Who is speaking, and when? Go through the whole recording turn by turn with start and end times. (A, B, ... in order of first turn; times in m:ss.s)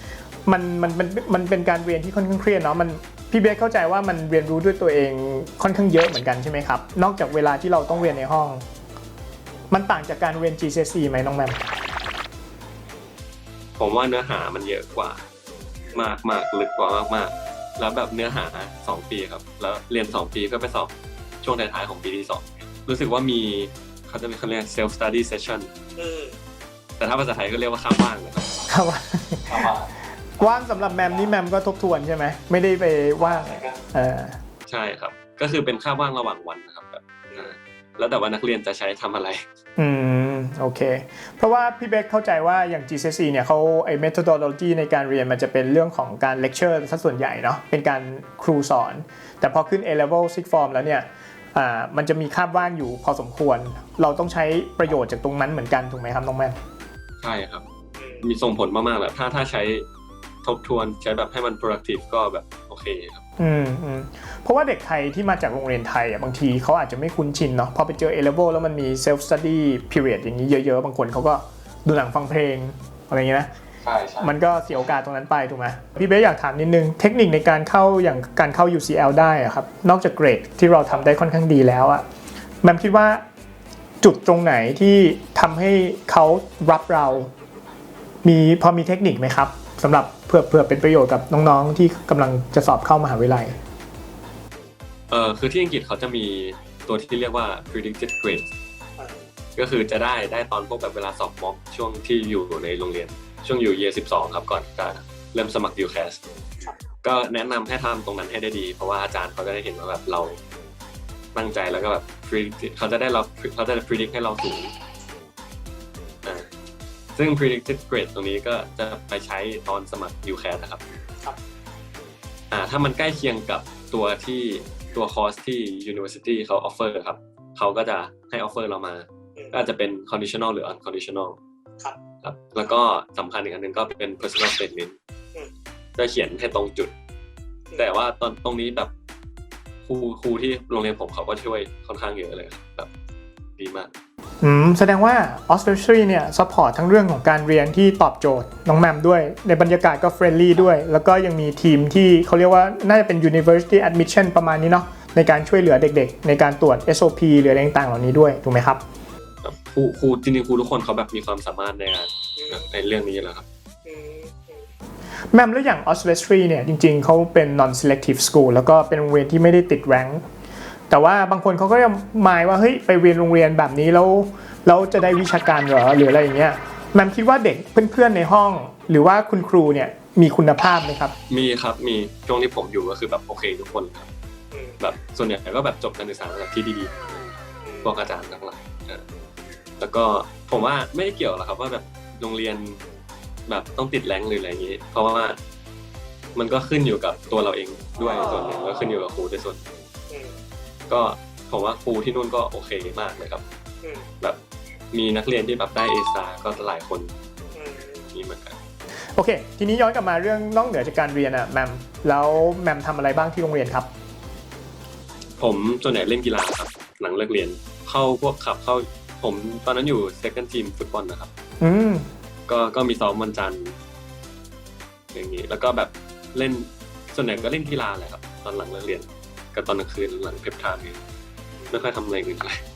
0:00.5-0:08.6 A
0:09.7-0:11.6 A
0:13.8-0:15.2 B
0:15.9-0:20.9 B
0:21.4-0:25.7 B
0:26.0-0:26.4 C
0:27.0-0:28.6 B
0:28.7-0:29.7 A
0:29.5-0:29.9 B
0:30.4-0:34.4 A
0:33.2-0:33.8 B
0:34.7-0:39.4 B
0:39.8-0:56.6 A
0:57.2-0:57.6 B
0:58.0-0:58.2 C
0:58.2-0:59.9 B
1:00.4-1:03.2 B
1:03.4-1:13.5 A
1:13.8-1:14.3 B
1:14.2-1:22.0 A
1:22.6-1:23.2 A
1:24.0-1:27.3 A
1:28.2-1:33.6 A
1:35.1-1:38.5 B
1:39.6-1:46.2 B
1:47.0-1:50.4 B
1:51.4-1:54.7 B
1:56.2-1:56.5 B
1:57.2-2:00.8 B
2:02.5-2:11.4 B
2:12.2-2:15.0 B
2:16.0-2:16.9 B
2:17.8-2:18.9 B
2:19.9-2:22.9 B
2:23.6-2:23.9 B
2:24.4-2:38.8 A
2:39.4-2:43.4 B
2:43.9-2:44.7 C
2:45.3-2:50.2 A
2:50.9-3:01.2 A
3:01.3-3:04.1 B
3:04.8-3:09.0 B
3:09.8-3:12.8 B
3:13.5-3:15.4 B
3:16.4-3:19.6 B
3:20.9-3:23.4 B
3:24.9-3:27.1 B
3:27.6-3:28.1 C
3:28.1-3:28.6 B
3:29.2-3:33.9 A
3:35.4-3:41.3 B
3:41.6-3:42.1 A
3:42.5-3:43.8 B
3:45.1-3:51.0 B
3:51.7-3:52.6 B